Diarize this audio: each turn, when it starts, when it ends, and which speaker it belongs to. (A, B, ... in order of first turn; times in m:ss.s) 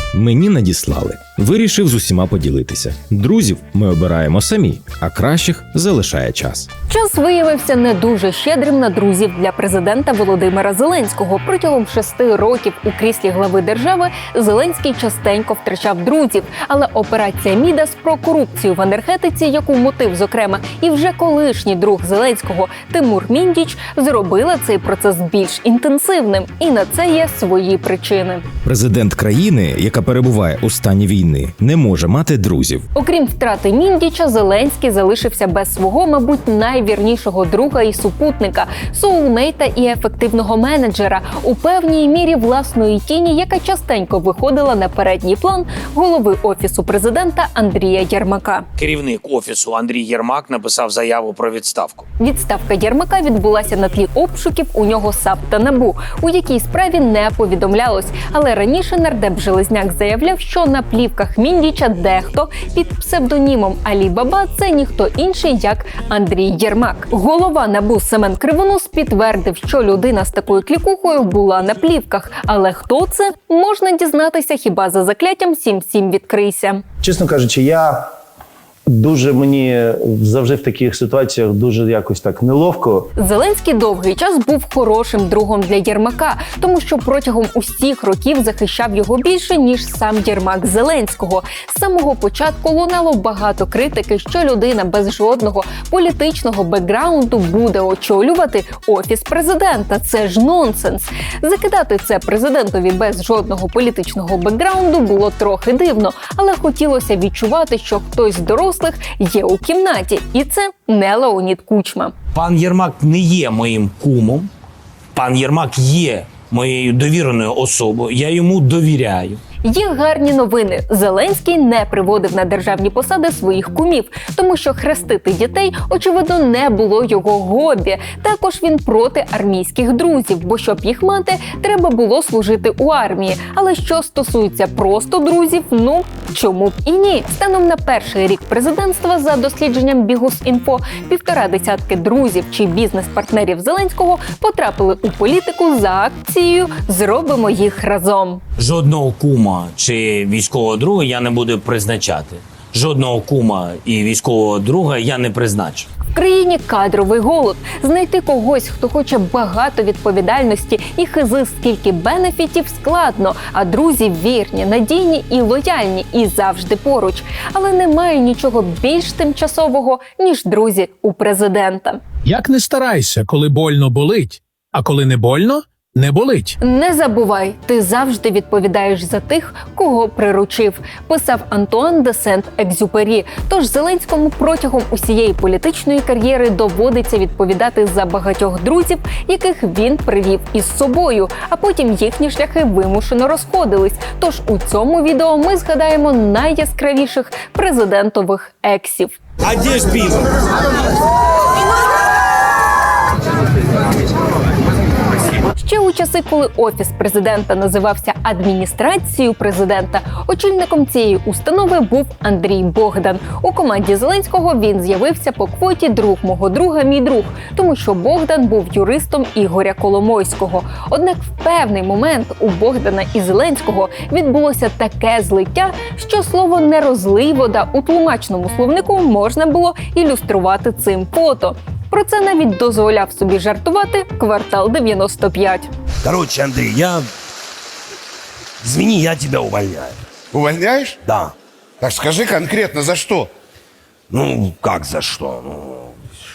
0:00.1-0:06.7 A
0:06.9-0:28.4 B
0:28.7-0:32.8 A
0:33.0-0:48.7 B
0:48.8-0:52.0 C
0:52.2-1:16.8 B
1:17.0-1:18.1 D
1:18.9-1:23.1 D
1:23.2-1:52.1 B
1:52.3-1:54.5 C
1:55.1-1:59.4 C
1:59.6-2:28.4 B
2:28.6-2:35.9 C
2:36.1-2:52.0 B
2:52.2-2:56.6 E
2:56.6-3:19.2 B
3:19.5-3:20.3 C
3:25.5-3:55.7 B
3:56.0-3:57.0 F
3:58.6-3:59.9 F
4:00.3-4:00.9 G
4:01.8-4:03.3 G
4:04.1-4:05.7 F